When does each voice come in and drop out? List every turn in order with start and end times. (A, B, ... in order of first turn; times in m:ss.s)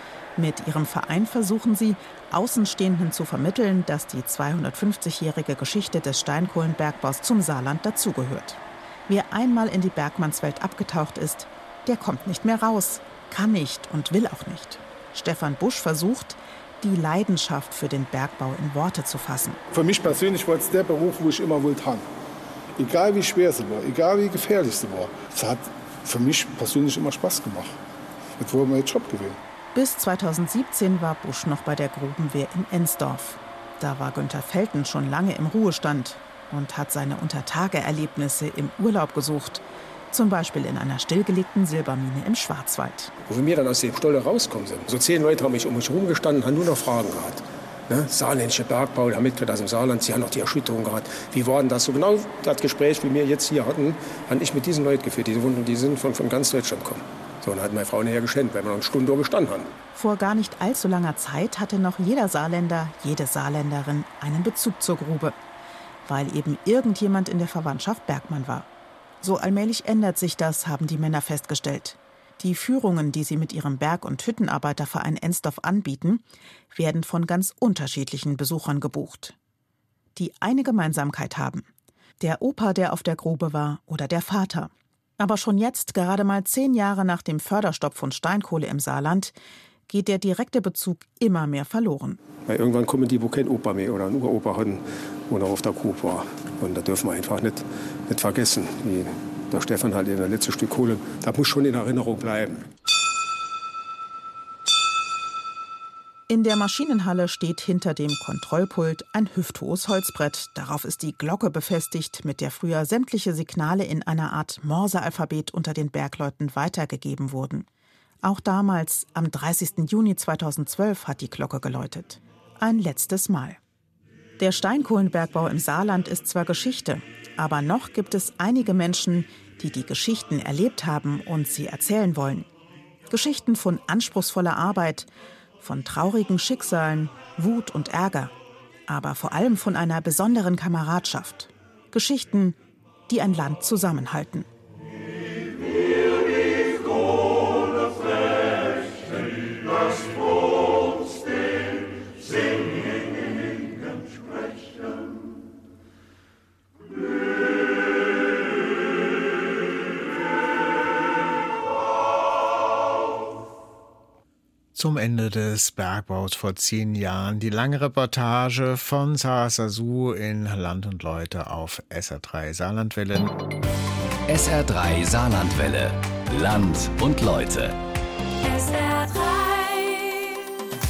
0:00.4-0:19.6 A
0:19.7-0:22.1 B
0:22.8-0:27.8 B
0:28.4-0:29.4 B
0:29.8-0:43.1 A
0:43.3-0:59.7 C
1:00.0-1:05.4 A
1:06.1-1:08.7 A
1:09.2-1:19.4 A
1:20.2-1:21.7 A
1:22.2-1:29.3 A
1:29.9-1:32.2 A
1:32.5-1:42.7 C
1:46.3-1:57.7 A
1:58.2-2:03.6 A
2:04.4-2:12.5 A
2:13.1-2:15.1 A
2:15.6-2:18.3 A
2:18.9-2:22.6 A
2:23.1-2:24.5 A
2:44.8-2:53.3 D
2:54.3-2:57.8 E
2:58.4-3:00.4 F